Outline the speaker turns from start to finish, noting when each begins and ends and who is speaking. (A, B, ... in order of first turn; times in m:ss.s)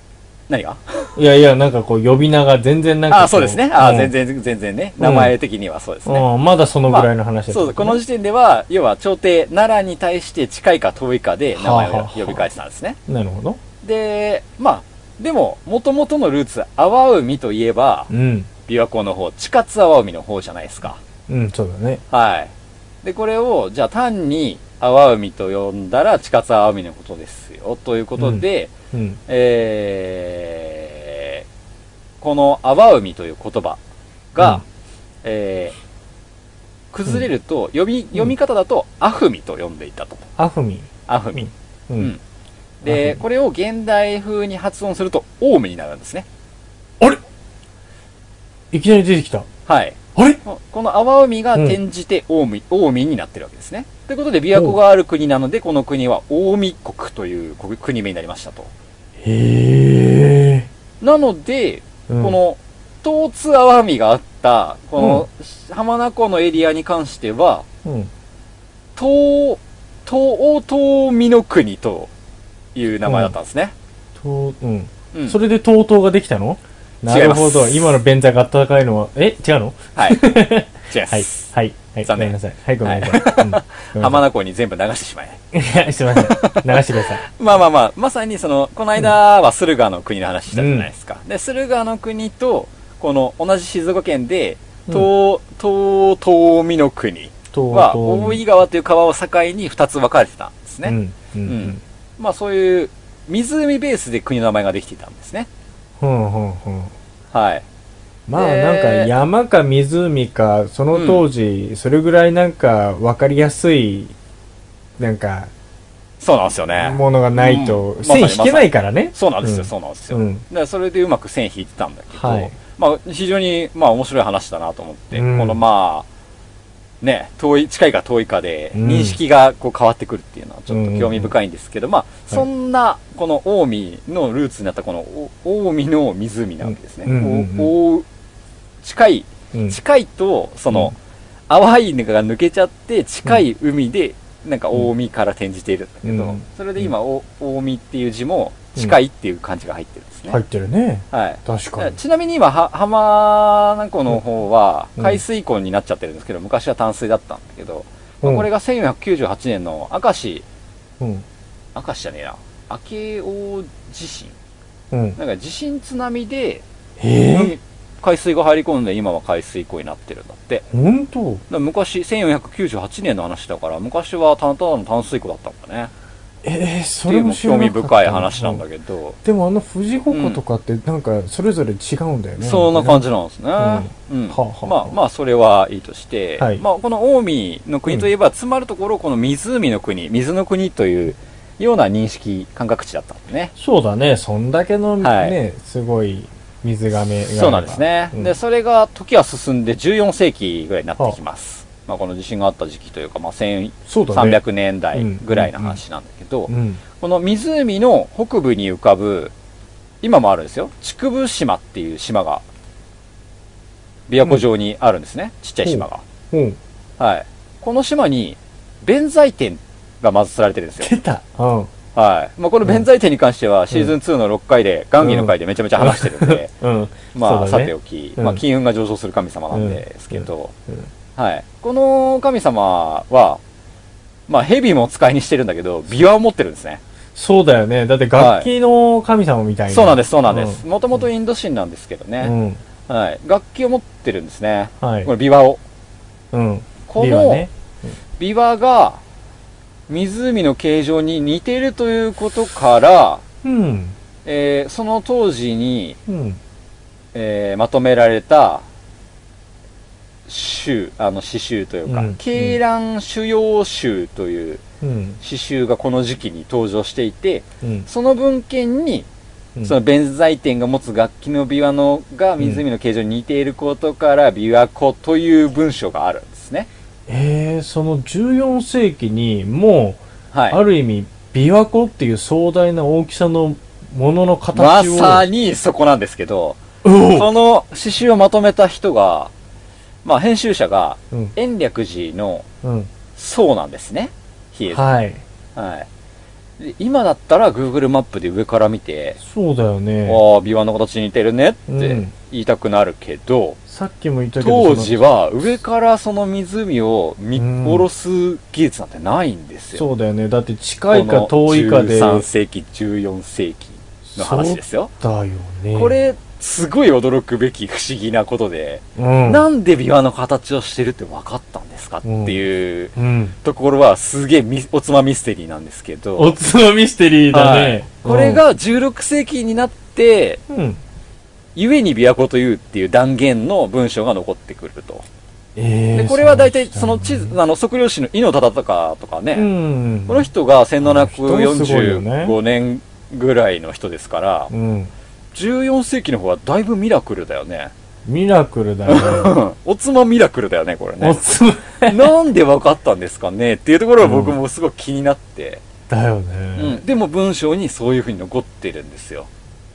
0:00.5-0:01.2 A
0:01.2-0:04.1 B
0:03.1-0:06.3 A
0:05.0-0:05.3 B
0:06.0-0:08.0 B
0:06.8-0:13.0 A
0:11.5-0:12.5 B
0:13.1-0:13.6 B
0:13.8-0:18.1 A
0:18.1-0:18.5 B
0:18.7-0:21.0 A
0:21.3-0:22.0 B
0:22.1-0:22.5 A
0:23.0-0:28.7 A
0:28.2-0:29.2 B
0:29.3-0:31.4 A
0:32.2-0:33.8 A
0:34.3-0:34.6 A
0:35.2-0:35.8 A
0:36.9-0:40.3 A
0:40.4-0:42.1 B
0:41.1-0:42.2 A
0:42.8-0:46.3 A
0:42.9-0:43.2 B
0:48.7-0:49.5 B
0:49.7-0:58.7 A
0:59.2-1:00.7 B
1:01.0-1:07.6 A
1:02.1-1:02.4 B
1:05.0-1:05.2 B
1:07.8-1:08.1 B
1:09.0-1:12.1 A
1:12.8-1:13.7 A
1:13.0-1:13.4 B
1:14.2-1:24.2 B
1:15.1-1:15.4 A
1:17.1-1:18.0 A
1:20.0-1:21.5 A
1:22.0-1:25.4 A
1:25.5-1:27.2 B
1:26.1-1:45.5 A
1:30.5-1:30.9 B
1:37.5-1:38.4 B
1:40.8-1:41.8 B
1:46.0-1:46.9 B
1:47.3-1:47.6 A
1:48.3-1:54.1 B
1:48.4-1:49.1 A
1:50.9-1:51.3 A
1:55.0-1:55.5 B
1:56.2-2:06.1 A
1:56.8-2:00.4 B
2:02.2-2:02.6 B
2:05.1-2:05.6 B
2:07.0-2:18.1 A
2:08.8-2:09.2 B
2:10.7-2:11.3 B
2:16.6-2:17.7 B
2:18.8-2:21.0 A
2:21.5-2:30.4 A
2:26.0-2:26.9 B
2:30.3-2:32.0 B
2:31.1-2:40.4 A
2:35.0-2:35.2 B
2:41.0-2:41.2 B
2:41.8-2:44.4 A
2:44.9-2:45.2 B
2:45.2-2:46.6 A
2:47.0-2:47.6 B
2:47.3-2:50.6 A
2:50.7-2:51.4 B
2:51.5-2:55.9 A
2:56.4-2:58.6 B
2:57.1-2:59.2 A
2:59.2-3:03.0 B
3:00.1-3:00.4 A
3:02.4-3:13.5 A
3:03.6-3:05.0 B
3:13.6-3:18.3 B
3:15.0-3:15.4 A
3:17.3-3:29.3 A
3:23.9-3:24.4 B
3:24.9-3:25.8 B
3:26.5-3:26.8 B
3:30.0-3:32.4 A
3:34.1-3:36.0 A
3:35.6-3:36.6 B
3:37.0-3:41.0 A
3:40.8-3:41.7 B
3:42.0-3:46.5 A
3:45.0-3:48.4 B
3:47.1-3:50.5 A
3:49.5-3:50.9 B
3:51.2-3:53.4 A
3:54.3-3:56.8 A
3:57.2-4:00.6 B
3:58.2-3:58.5 A
3:59.7-4:02.3 A
4:02.2-4:02.6 B
4:02.9-4:05.6 A
4:04.8-4:05.1 B
4:06.3-4:07.9 B
4:06.9-4:07.4 A
4:08.2-4:09.0 A
4:09.9-4:13.2 A
4:13.4-4:14.0 B
4:14.2-4:16.0 A
4:16.1-4:16.4 B
4:17.1-4:18.6 A
4:20.3-4:24.6 A
4:21.9-4:22.6 B
4:24.8-4:25.2 B
4:25.2-4:29.1 A
4:27.6-4:27.9 B
4:29.6-4:36.7 A
4:32.4-4:32.6 B
4:37.1-4:45.3 B
4:40.3-4:40.6 A
4:44.5-4:49.3 A
4:46.8-4:47.3 B
4:50.0-4:52.5 A
4:52.6-4:52.9 B
4:53.2-4:54.8 A
4:54.7-4:55.2 B
4:55.6-4:55.9 A
4:56.6-4:59.2 A
4:59.2-5:00.2 B
5:00.0-5:03.6 A
5:01.7-5:02.1 B
5:03.7-5:05.0 B
5:04.4-5:09.9 A
5:07.4-5:07.9 B
5:09.8-5:12.3 B
5:10.9-5:14.9 A
5:14.1-5:15.9 B
5:15.7-5:26.4 A
5:19.0-5:19.4 B
5:22.0-5:22.4 B
5:23.0-5:23.4 B
5:26.2-5:28.4 B
5:27.3-5:30.4 A
5:30.5-5:30.8 B
5:31.6-5:35.1 A
5:35.6-5:37.4 B
5:35.9-5:39.5 A
5:39.3-5:40.3 B
5:40.1-5:44.5 A
5:40.8-5:42.4 B
5:44.5-5:44.9 B
5:45.3-5:47.7 A
5:48.1-5:49.4 B
5:48.9-5:51.2 A
5:51.0-5:52.1 B
5:51.8-5:55.6 A
5:54.0-5:54.4 B
5:55.9-5:56.8 B
5:56.6-5:59.3 A